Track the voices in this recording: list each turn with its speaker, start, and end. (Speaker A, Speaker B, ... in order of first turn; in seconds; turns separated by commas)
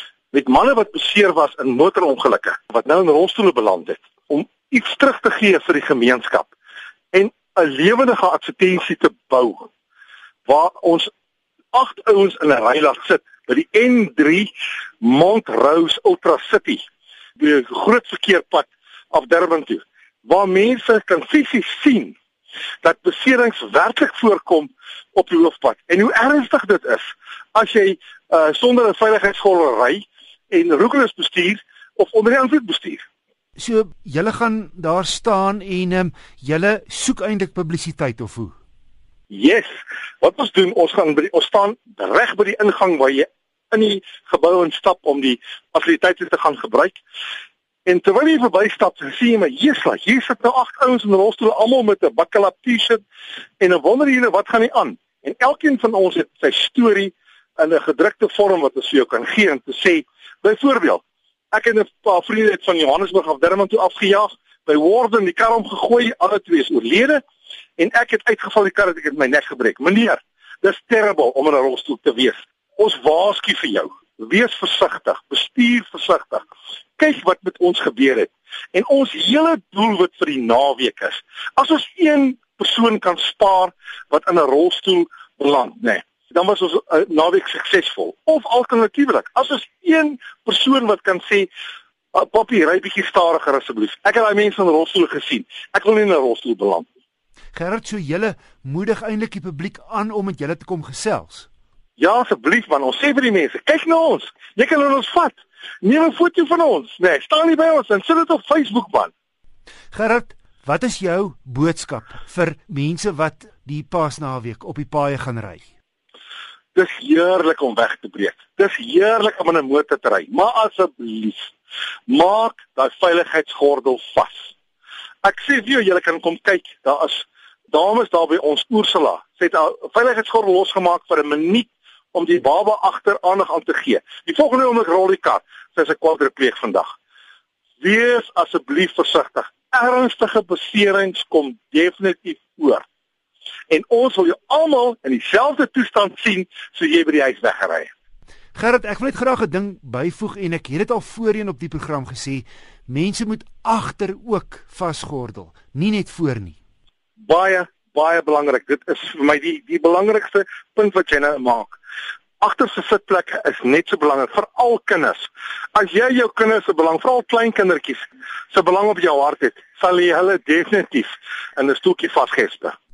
Speaker A: 0.3-6.5, Speaker A: 7.1-9.7, Speaker A: 10.5-11.1, Speaker A: 11.7-16.8, Speaker A: 17.4-22.2, Speaker A: 22.8-33.0, Speaker B: 33.6-38.5, Speaker A: 39.3-39.7, Speaker A: 40.2-47.0, Speaker A: 47.9-53.0, Speaker A: 53.6-67.2, Speaker A: 67.8-76.4, Speaker A: 77.0-91.5, Speaker A: 92.1-96.9, Speaker B: 97.5-101.5, Speaker A: 102.0-109.1, Speaker B: 109.9-115.7, Speaker A: 116.8-121.5, Speaker A: 122.1-124.5, Speaker A: 125.2-136.9, Speaker A: 137.8-142.8, Speaker A: 143.7-147.9, Speaker B: 148.6-156.6, Speaker A: 157.2-161.8, Speaker A: 162.4-172.8